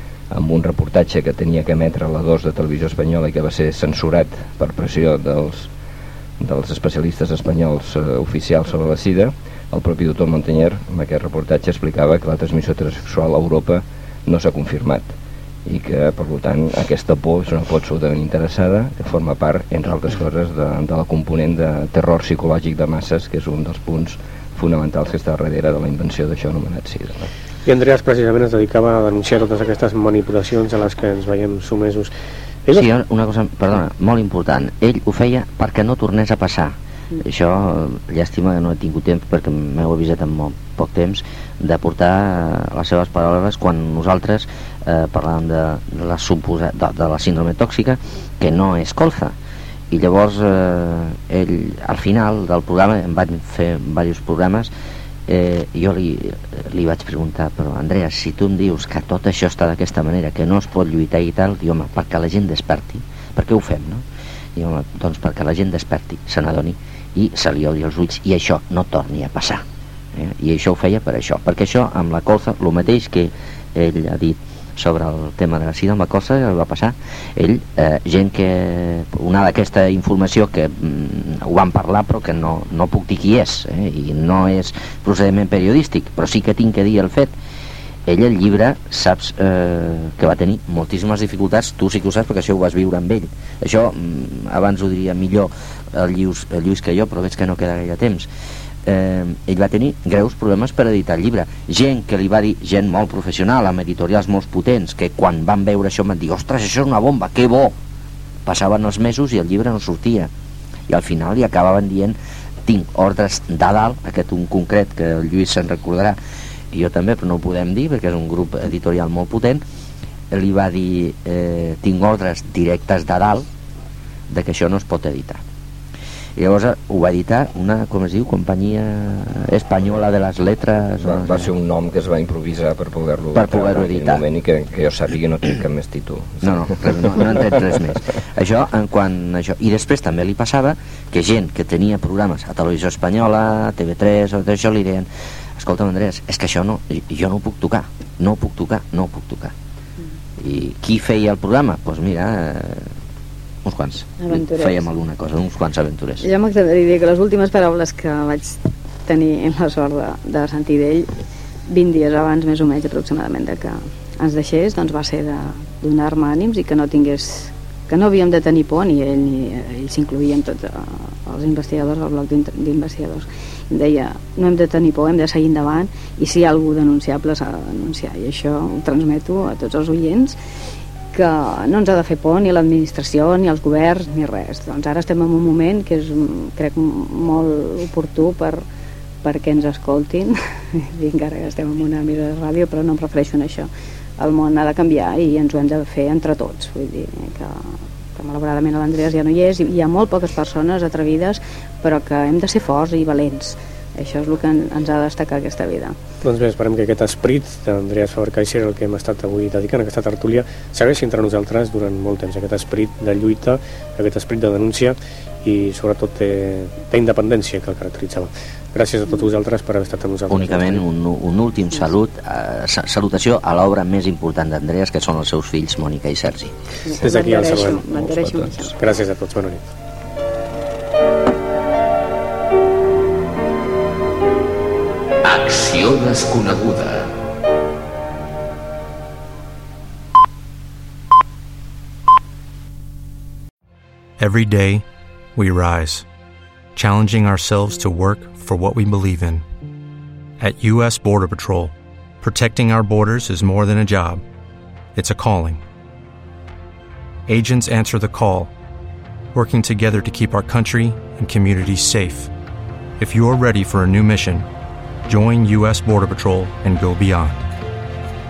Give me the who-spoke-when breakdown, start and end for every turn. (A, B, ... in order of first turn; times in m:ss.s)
0:00.3-0:05.7 A
0:06.4-0:15.1 A
0:15.6-0:27.3 A
0:27.6-0:32.1 B
0:32.7-0:49.4 C
0:49.9-0:54.7 C
0:55.3-1:27.4 C
1:28.1-1:38.3 C
1:38.8-1:47.8 C
1:48.4-1:50.3 C
1:50.9-1:56.2 C
1:56.7-1:59.6 C
2:00.3-2:03.5 C
2:04.3-2:05.4 C
2:06.4-2:11.5 C
2:11.0-2:17.3 A
2:13.3-2:14.2 C
2:16.4-2:29.5 C
2:30.4-2:32.9 C
2:33.6-2:36.3 C
2:34.2-2:34.9 D
2:36.2-2:41.1 D
2:41.7-3:00.4 D
3:01.1-3:08.6 D
3:09.2-3:26.0 D
3:26.2-3:40.8 B
3:40.3-3:46.6 C
3:46.8-3:48.8 D
3:47.0-3:47.8 B
3:47.7-3:48.7 A
3:48.8-3:49.7 B
3:55.2-3:57.1 C
4:04.2-4:04.8 E
4:05.4-4:06.1 E
4:06.8-4:09.4 E
4:10.4-4:14.2 E
4:15.0-4:15.6 E
4:17.3-4:18.5 E
4:19.3-4:22.3 E
4:23.0-4:24.5 E
4:25.1-4:27.4 E